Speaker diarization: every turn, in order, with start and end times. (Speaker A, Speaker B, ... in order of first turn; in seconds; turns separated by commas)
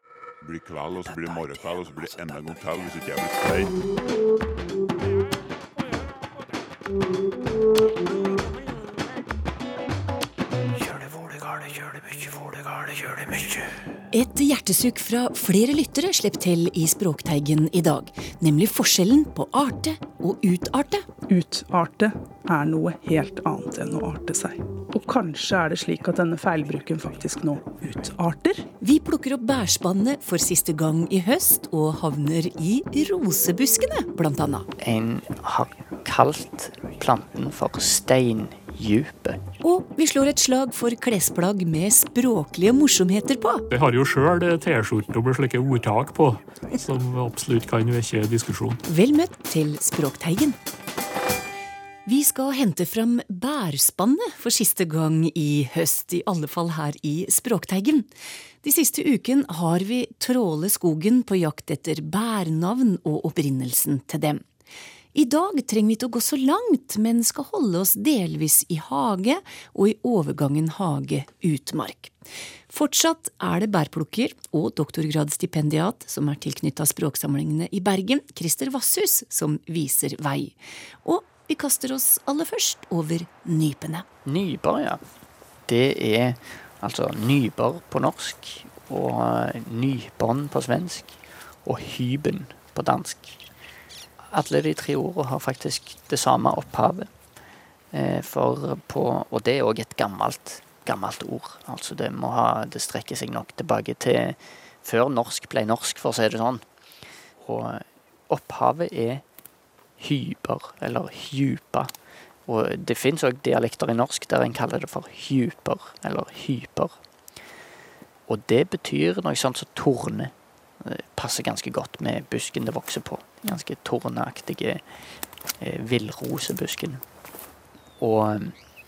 Speaker A: 0.4-3.8, Speaker B: 14.1-21.1, Speaker C: 21.3-28.7, Speaker B: 28.8-34.7, Speaker D: 34.8-39.4, Speaker B: 39.6-43.6, Speaker E: 43.7-48.8, Speaker B: 48.9-50.6, Speaker B: 52.1-58.1, Speaker B: 58.6-64.4, Speaker B: 65.1-72.1, Speaker B: 72.7-84.0, Speaker D: 84.2-85.0, Speaker D: 85.7-93.4, Speaker D: 94.3-97.1, Speaker D: 97.9-106.7, Speaker D: 107.4-109.2, Speaker D: 110.0-111.9, Speaker D: 112.5-117.0, Speaker D: 118.3-124.8, Speaker D: 125.6-127.0, Speaker D: 128.0-128.6